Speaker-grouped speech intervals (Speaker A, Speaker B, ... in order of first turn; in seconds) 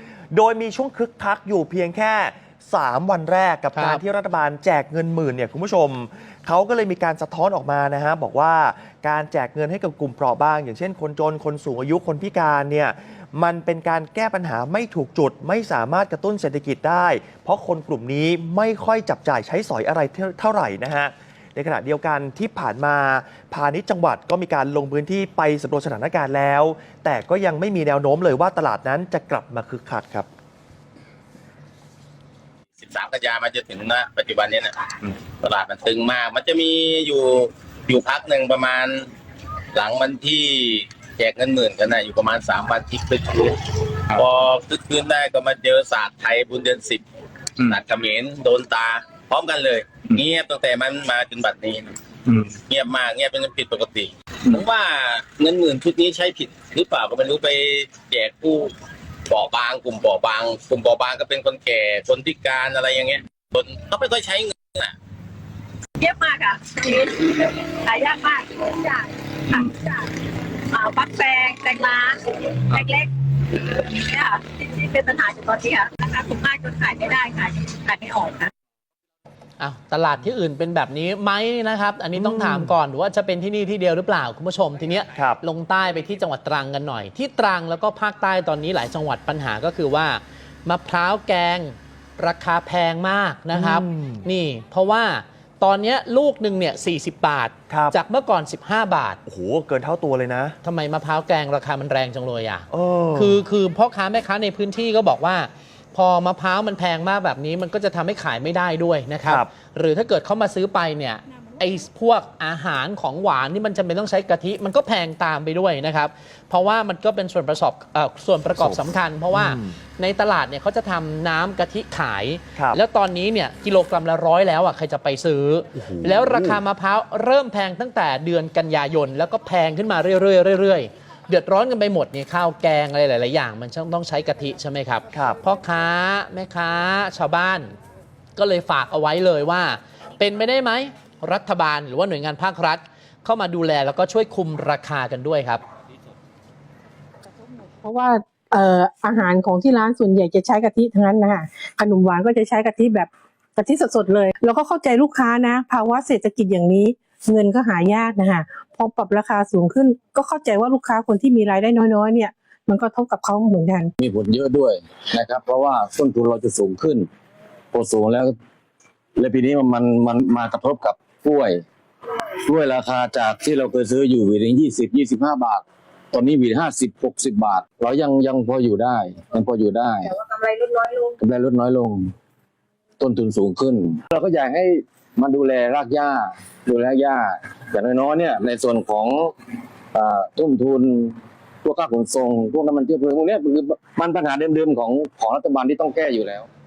Speaker A: 0.3-30.3, 82.1-82.7, 85.1-85.4, 93.5-94.2, 97.7-98.0, 99.2-100.6, 102.7-103.4, 109.2-109.5, 118.6-119.8, 122.5-122.8, 125.7-126.6, 135.1-135.4
Speaker B: 3.7-4.0, 79.6-99.2, 100.6-137.7, 138.3-145.6
Speaker C: 32.8-39.1, 39.7-47.0, 47.6-58.7, 59.3-64.9
Speaker D: 66.0-70.1, 70.7-78.5, 180.2-181.1
Speaker E: 147.8-163.9
Speaker F: 164.0-167.1, 167.7-168.3, 169.2-171.6, 172.3-180.2, 181.2-182.1, 183.0-189.3, 189.9-196.5